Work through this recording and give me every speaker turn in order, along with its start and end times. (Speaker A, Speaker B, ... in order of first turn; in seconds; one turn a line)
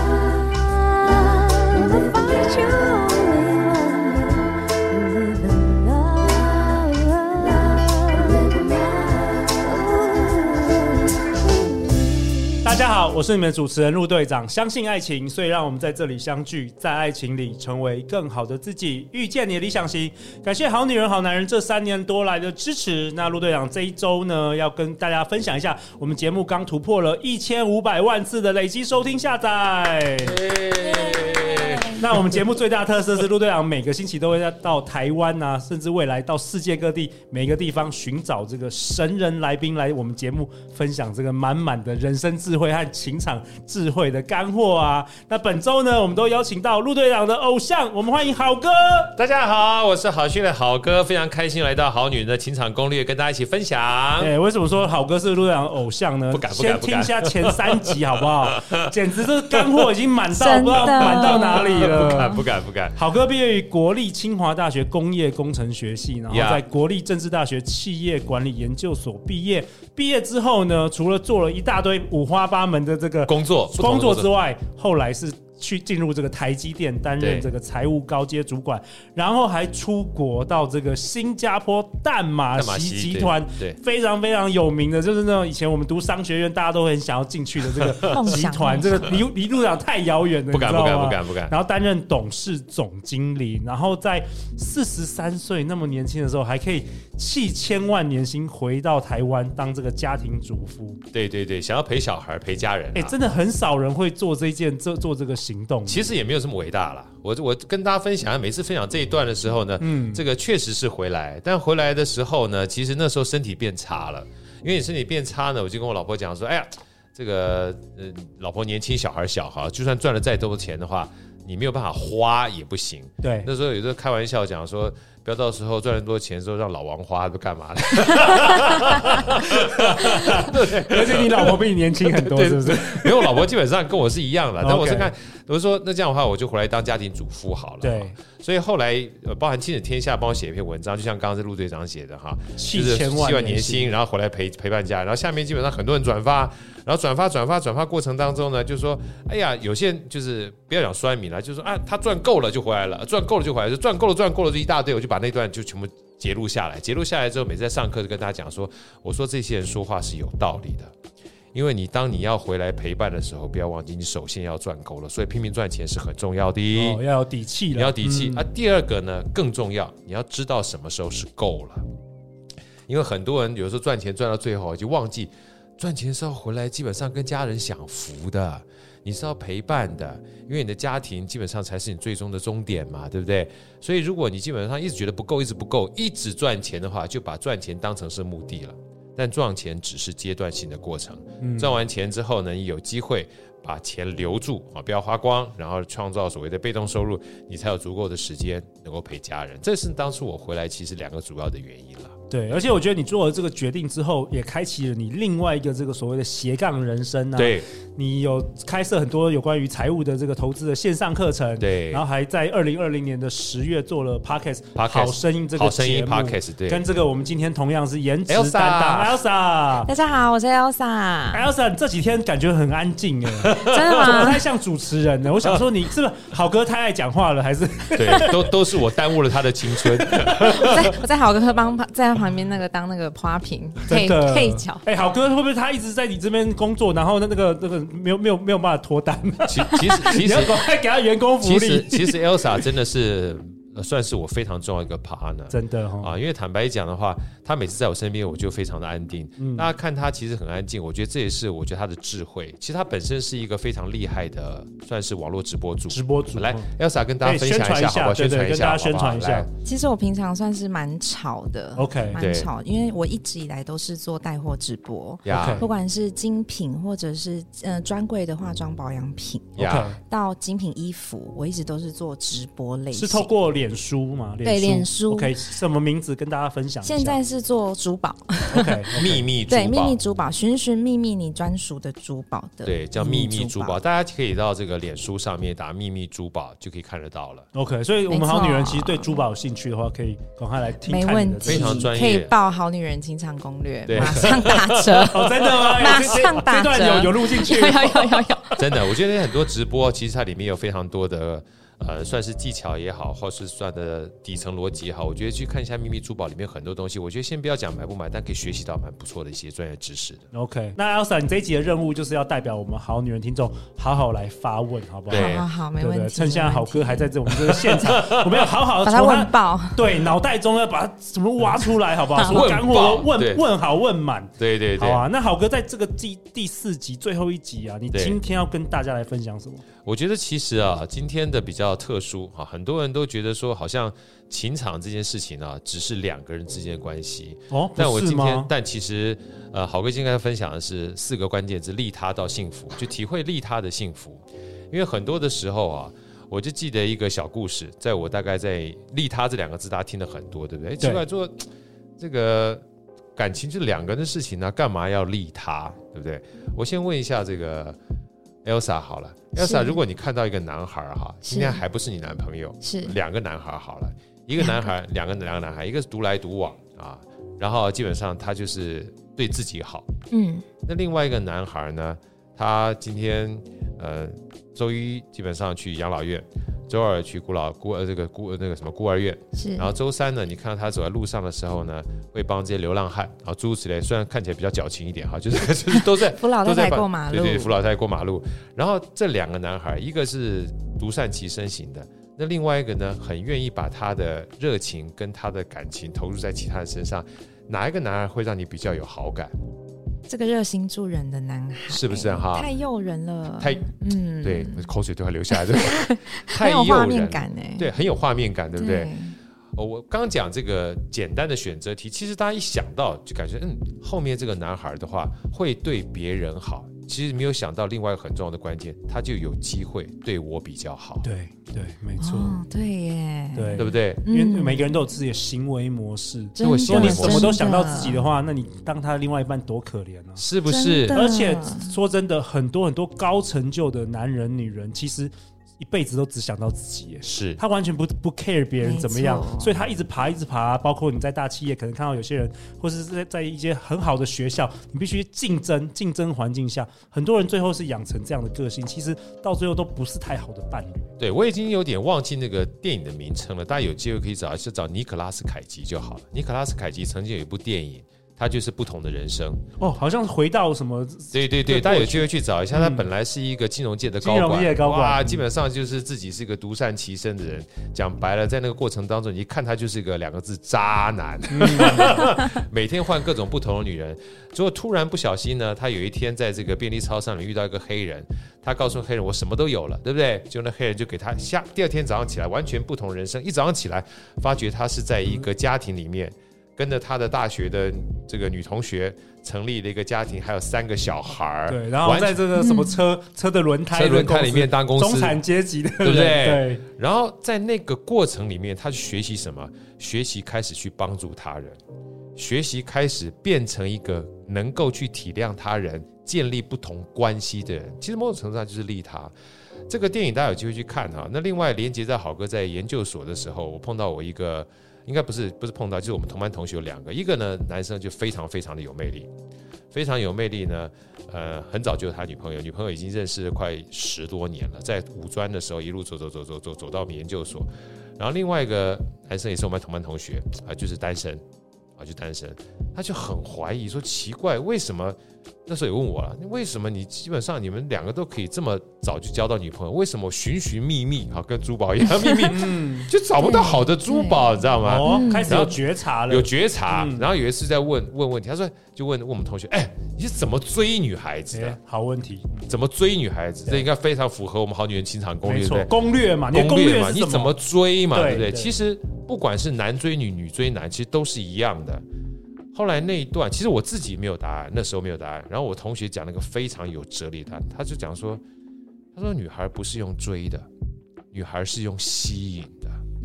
Speaker A: 0.5-4.4
Speaker A: 5.2-8.8
Speaker A: 9.4-10.8
Speaker B: 12.6-30.4
Speaker C: 30.2-32.0
Speaker A: 30.8-31.8
Speaker B: 31.9-49.1
Speaker C: 49.1-54.3
Speaker B: 54.2-62.4
Speaker C: 56.3-58.9
Speaker C: 59.5-59.8
Speaker A: 60.3-62.4
Speaker C: 60.8-63.0
Speaker B: 62.9-101.0
Speaker C: 66.3-66.6
Speaker C: 73.3-74.3
Speaker C: 77.2-77.5
Speaker C: 82.5-83.8
Speaker C: 87.8-88.0
Speaker A: 88.1-89.2
Speaker C: 90.5-91.5
Speaker C: 101.1-103.1
Speaker B: 102.9-106.0
Speaker C: 105.8-160.9
Speaker B: 109.8-110.2
Speaker B: 123.2-123.5
Speaker B: 129.5-133.4
Speaker B: 134.6-135.1
Speaker B: 137.8-138.2
Speaker B: 142.6-143.9
Speaker C: 161.5-167.0
Speaker B: 166.7-168.4
Speaker C: 167.7-171.8
Speaker C: 172.9-202.2
Speaker B: 191.4-191.8
Speaker B: 202.3-219.9
Speaker C: 207.3-207.7
Speaker C: 211.6-212.0
Speaker C: 214.7-216.8
Speaker C: 218.3-219.2
Speaker A: 219.8-221.5
Speaker B: 221.3-228.5
Speaker C: 223.4-224.0
Speaker A: 223.6-224.4
Speaker C: 227.9-231.0
Speaker B: 229.8-230.7
Speaker A: 230.4-234.8
Speaker B: 233.9-242.7
Speaker C: 239.4-240.6
Speaker C: 241.4-259.5
Speaker B: 245.5-246.1
Speaker B: 249.4-249.7
Speaker B: 255.9-256.7
Speaker B: 257.2-259.5
Speaker A: 259.6-273.3
Speaker B: 261.8-262.2
Speaker C: 262.2-262.5
Speaker C: 265.2-265.7
Speaker B: 265.3-265.6
Speaker C: 269.6-270.0
Speaker B: 269.6-270.0
Speaker B: 272.9-277.2
Speaker A: 274.4-275.4
Speaker A: 276.8-278.8
Speaker B: 278.5-279.2
Speaker C: 278.9-280.0
Speaker A: 279.5-283.8
Speaker C: 282.6-287.5
Speaker B: 287.5-291.9
Speaker A: 288.1-289.2
Speaker A: 290.8-298.5
Speaker C: 291.4-292.3
Speaker C: 293.8-296.0
Speaker B: 293.9-298.8
Speaker C: 298.6-310.2
Speaker B: 310.3-329.6
Speaker C: 315.1-315.4
Speaker A: 315.1-317.1
Speaker C: 317.4-318.4
Speaker A: 318.8-320.0
Speaker C: 322.3-323.4
Speaker C: 324.4-325.0
Speaker C: 327.9-328.2
Speaker C: 329.8-351.4
Speaker B: 337.5-338.5
Speaker C: 352.0-352.6
Speaker C: 353.1-357.8
Speaker C: 358.4-369.9
Speaker A: 359.4-359.8
Speaker A: 361.3-361.6
Speaker A: 362.6-362.9
Speaker A: 370.1-370.4
Speaker C: 370.6-399.3
Speaker A: 379.4-379.7
Speaker A: 385.7-387.6
Speaker A: 400.1-404.7
Speaker C: 401.7-402.5
Speaker C: 403.4-403.6
Speaker C: 404.2-408.9
Speaker A: 405.3-407.7
Speaker A: 408.6-409.1
Speaker C: 409.5-421.1
Speaker B: 421.0-422.4
Speaker A: 422.0-424.8
Speaker B: 423.3-430.2
Speaker C: 423.6-424.0
Speaker A: 426.4-428.0
Speaker C: 426.4-427.3
Speaker C: 430.2-431.0
Speaker A: 430.4-431.7
Speaker B: 430.9-450.9
Speaker C: 437.0-437.4
Speaker A: 438.6-439.6
Speaker C: 451.0-459.4
Speaker B: 459.6-462.9
Speaker C: 461.1-492.2
Speaker B: 464.0-465.2
Speaker B: 471.3-471.9
Speaker B: 491.5-496.6
Speaker A: 492.4-492.8
Speaker C: 493.7-495.2
Speaker C: 495.8-501.6
Speaker C: 502.1-509.1
Speaker C: 509.7-519.1
Speaker C: 519.7-531.2
Speaker C: 531.8-551.6
Speaker B: 542.3-542.9
Speaker A: 543.2-544.3
Speaker B: 544.6-547.0
Speaker A: 544.8-545.4
Speaker B: 551.3-552.5
Speaker C: 552.5-555.7
Speaker B: 555.2-557.4
Speaker C: 556.3-561.8
Speaker B: 557.9-558.5
Speaker C: 562.5-568.2
Speaker C: 568.9-570.5
Speaker C: 571.1-572.8